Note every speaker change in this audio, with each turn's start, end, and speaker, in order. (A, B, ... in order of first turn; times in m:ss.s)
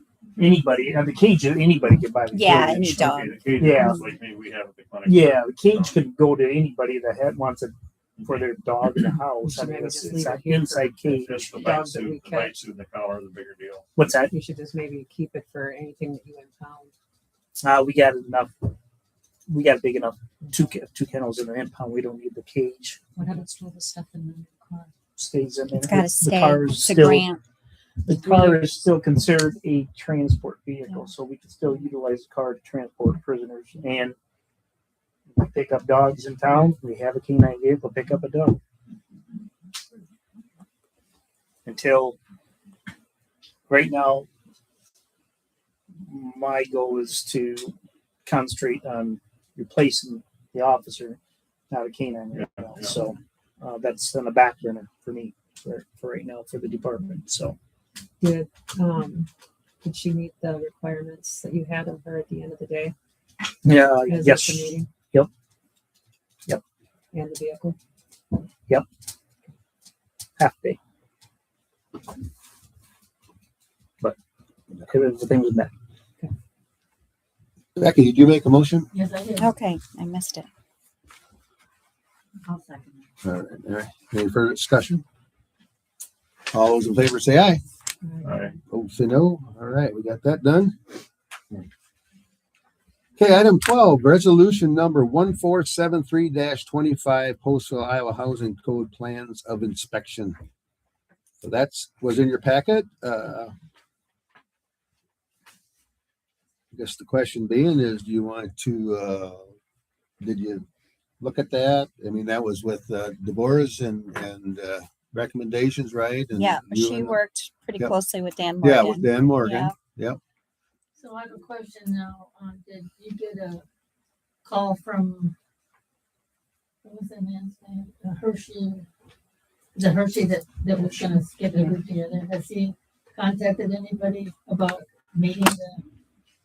0:00.4-0:04.0 A
0:02.3-0:03.8 B
0:03.0-0:05.9 C
0:05.0-0:11.7 A
0:09.4-0:12.6 D
0:11.1-0:13.8 C
0:14.0-0:14.3 A
0:14.2-0:16.9 D
0:17.6-0:18.5 A
0:19.5-0:23.0 A
0:23.2-0:24.9 E
0:23.3-0:24.0 D
0:25.2-0:27.2 A
0:25.8-0:27.4 B
0:28.0-0:34.1 A
0:35.3-0:38.6 A
0:41.6-0:42.2 A
0:43.7-0:44.3 A
0:46.0-0:47.7 A
0:48.2-0:51.2 A
0:51.7-0:57.6 A
0:52.3-0:53.0 C
0:58.2-0:59.3 D
0:59.8-1:02.9 D
1:03.6-1:05.3 A
1:04.0-1:04.9 D
1:07.1-1:07.8 D
1:10.4-1:10.8 A
1:14.8-1:15.7 A
1:17.8-1:18.9 F
1:18.9-1:19.5 E
1:19.4-1:20.5 B
1:23.2-1:25.0 F
1:26.5-1:27.6 F
1:28.2-1:28.6 C
1:28.7-1:30.8 F
1:33.2-1:40.4 F
1:41.4-1:43.5 F
1:46.7-1:49.5 F
1:50.2-1:50.6 F
1:51.2-1:57.2 F
1:56.3-1:59.7 B
1:58.6-2:00.2 F
2:01.0-2:03.6 E
2:04.4-2:05.3 E
2:06.8-2:08.8 E
2:09.8-2:15.8 E